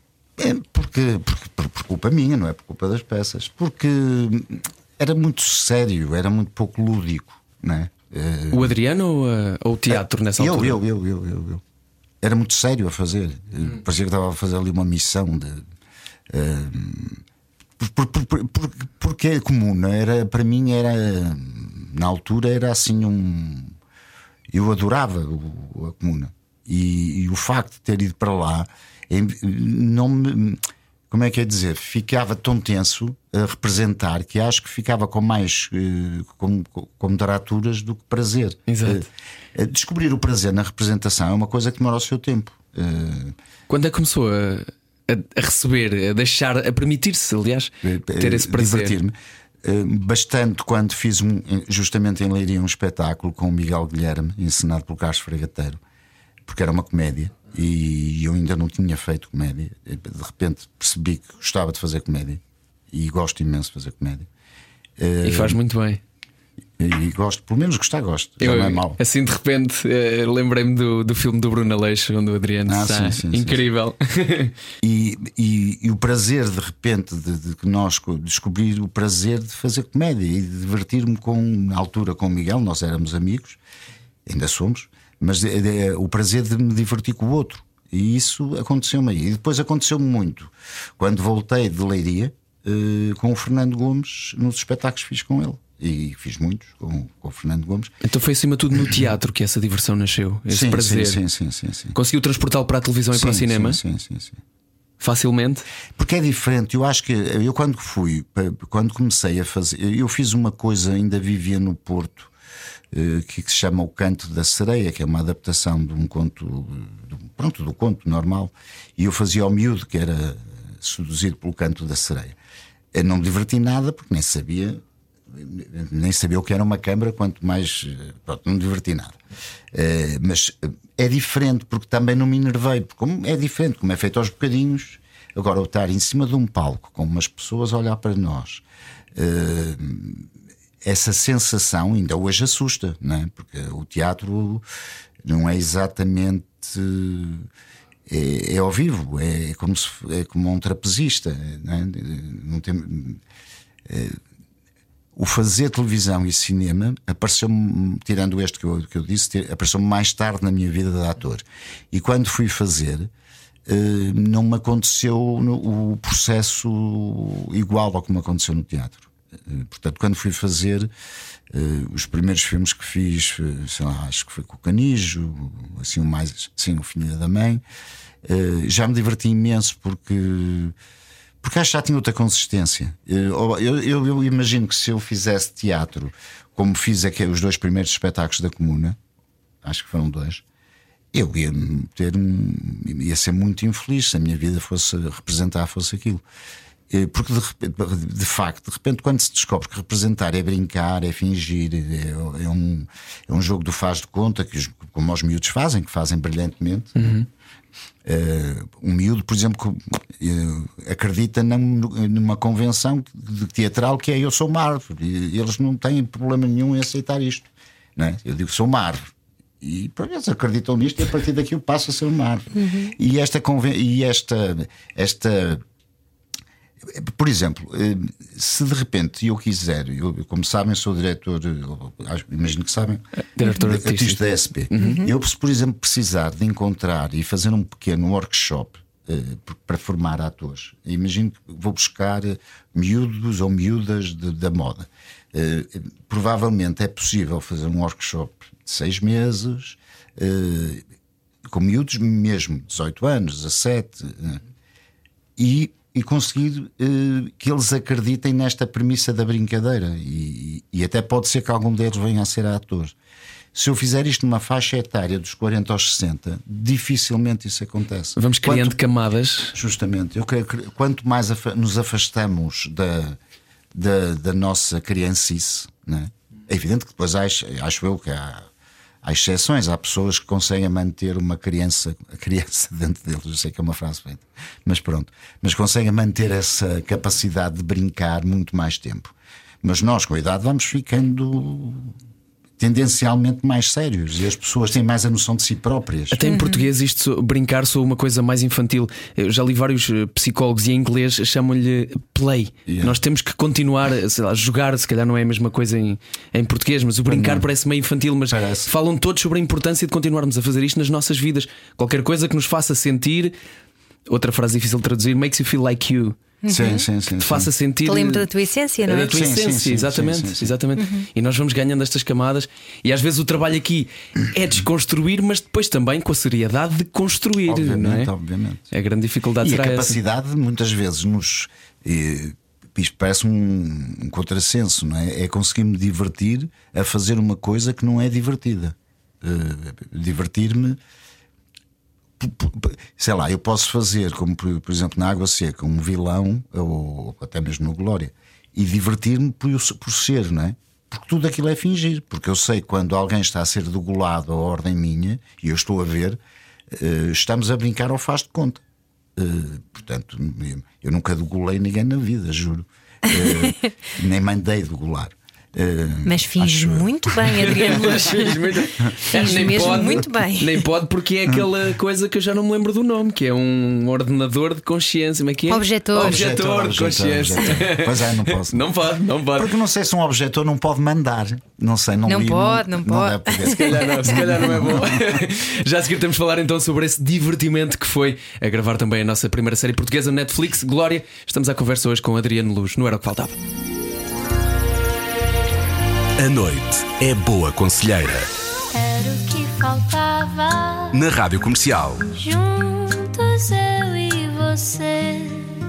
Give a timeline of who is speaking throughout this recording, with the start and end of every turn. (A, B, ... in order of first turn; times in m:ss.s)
0:00.4-0:08.8 A
0:08.5-0:10.8 B
0:09.9-0:11.6 A
0:12.2-0:15.6 A
0:16.3-0:17.2 A
0:17.8-0:23.8 A
0:24.5-0:43.4 A
0:38.7-0:39.1 B
0:43.7-0:49.0 B
0:47.8-0:55.8 A
0:56.5-1:04.3 A
1:05.0-1:05.6 A
1:05.2-1:06.0 B
1:06.8-1:09.0 A
1:08.4-1:14.5 B
1:12.7-1:13.6 A
1:14.8-1:23.6 A
1:24.3-1:37.9 A
1:38.0-1:41.2 B
1:40.5-1:41.9 A
1:41.9-1:43.8 B
1:43.1-1:44.4 A
1:45.0-1:45.7 B
1:46.0-1:52.3 A
1:52.9-2:02.4 A
2:02.9-2:09.2 A
2:09.7-2:18.6 A
2:19.2-2:20.3 A
2:20.8-2:24.6 A
2:25.2-2:27.5 A
2:28.1-2:33.2 A
2:33.9-2:34.2 A
2:35.2-2:43.1 A
2:43.7-2:50.9 A
2:51.5-2:57.6 A
2:58.2-3:00.8 A
3:01.4-3:09.0 A
3:09.6-3:10.4 A
3:11.1-3:16.2 A
3:16.9-3:27.2 A
3:27.0-3:27.3 B
3:28.0-3:45.6 A
3:42.6-3:42.9 C
3:46.9-3:53.0 A
3:53.4-3:54.2 B
3:53.6-4:10.8 A
3:54.7-3:55.0 B
3:54.8-3:55.1 C
4:11.5-4:14.4 A
4:15.4-4:23.0 A
4:23.5-4:28.8 A
4:28.2-4:29.6 B
4:29.5-4:33.2 A
4:33.7-4:38.5 A
4:39.0-4:51.9 A
4:52.6-4:56.2 A
4:56.1-5:13.4 B
4:56.3-4:56.7 C
5:02.7-5:03.0 A
5:07.1-5:07.5 A
5:08.3-5:08.7 A
5:14.1-5:16.2 B
5:16.4-5:16.8 C
5:16.5-5:17.5 A
5:17.2-5:18.3 B
5:17.8-5:19.1 C
5:18.8-5:28.1 B
5:19.1-5:20.5 A
5:20.8-5:21.1 C
5:27.4-5:28.7 A
5:28.7-5:30.0 B
5:29.4-5:40.8 A
5:42.2-5:56.2 A
5:56.7-5:58.6 A
5:59.2-6:07.8 A
6:06.0-6:08.4 C
6:07.4-6:19.5 B
6:08.8-6:10.0 A
6:09.1-6:10.6 C
6:15.5-6:16.2 C
6:16.0-6:18.7 A
6:19.4-6:25.2 A
6:22.1-6:24.1 C
6:23.5-6:33.4 B
6:36.2-6:38.3 D
6:38.7-6:41.0 E
6:40.9-6:42.1 D
6:42.2-6:45.5 E